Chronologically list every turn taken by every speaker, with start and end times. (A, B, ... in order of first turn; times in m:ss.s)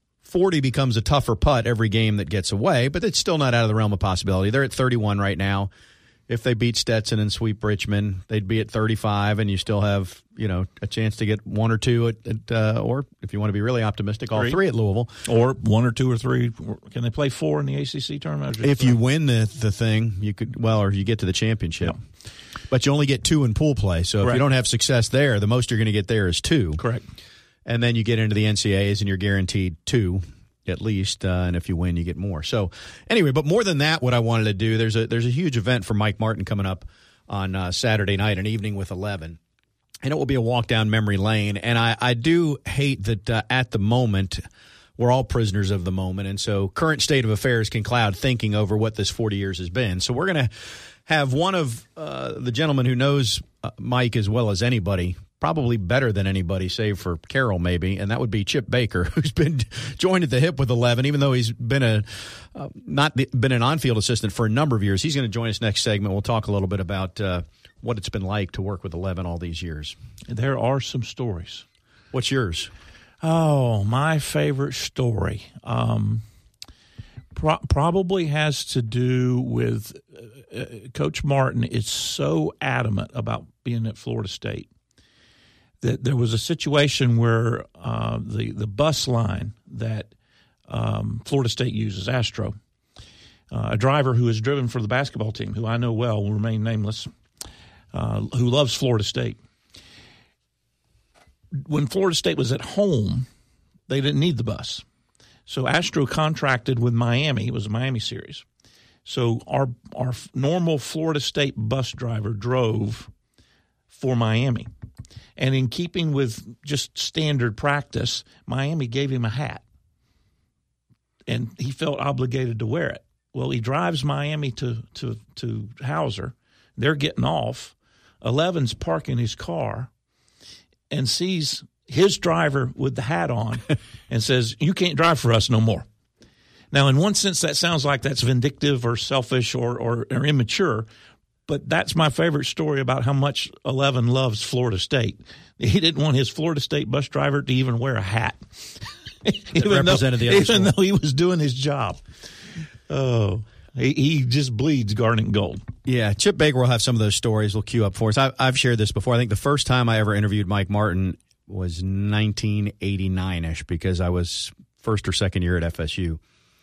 0:00.2-0:05.7 A
0:06.3-0:15.2 A
0:14.3-0:14.6 B
0:15.3-0:19.0 B
0:18.6-0:22.0 A
0:22.7-0:26.8 A
0:26.8-0:27.1 B
0:27.7-0:39.4 A
0:40.0-0:44.4 A
0:45.0-1:10.0 A
1:10.3-1:11.6 B
1:12.1-1:12.7 A
1:13.2-1:16.2 B
1:17.3-1:24.7 B
1:25.8-1:30.1 B
1:30.7-1:32.6 B
1:33.5-1:37.1 B
1:37.9-1:39.4 B
1:41.6-1:43.3 B
1:43.9-1:44.8 B
1:45.5-1:48.4 B
1:49.0-1:53.1 B
1:53.9-1:54.7 B
1:55.4-1:59.6 B
2:01.3-2:09.9 B
2:10.9-2:15.9 B
2:16.7-2:20.9 B
2:21.5-2:32.0 B
2:29.6-2:30.7 A
2:32.9-2:35.6 B
2:35.8-2:46.2 A